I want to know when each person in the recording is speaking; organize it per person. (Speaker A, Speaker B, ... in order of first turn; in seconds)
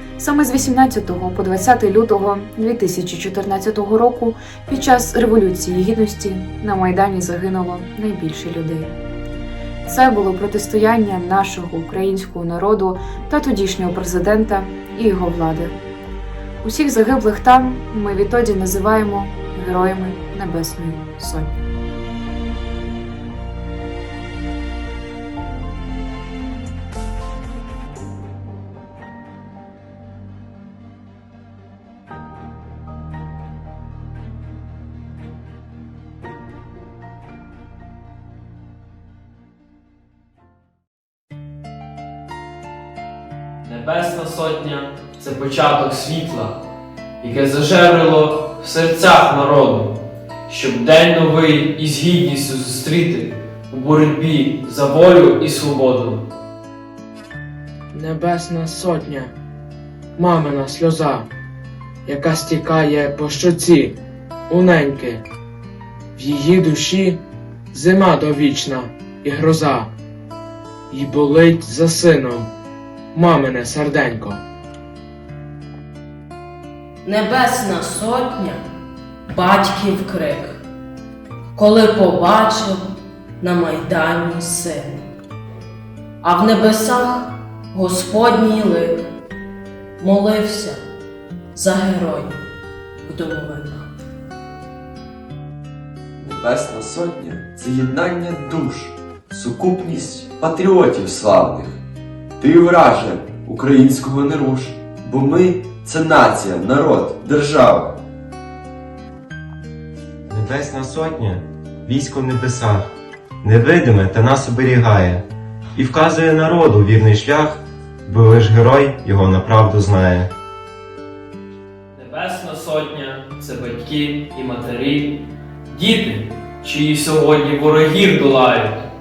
Speaker A: 0.2-9.0, 9.9-15.8, 16.6-21.5
Speaker B: 43.6-46.6, 47.2-49.9, 50.5-56.2, 122.0-128.8
Speaker C: 57.9-59.3, 60.2-61.3, 62.1-64.0, 64.5-65.2, 66.2-67.2, 67.7-69.9, 70.9-72.5, 73.1-74.4
Speaker D: 77.0-78.6, 79.3-80.6, 81.5-82.8, 83.4-85.0, 86.2-89.1, 90.0-90.8, 91.5-92.4, 93.0-93.9
Speaker E: 96.2-101.8, 102.4-108.0
Speaker F: 110.3-112.9, 113.4-120.3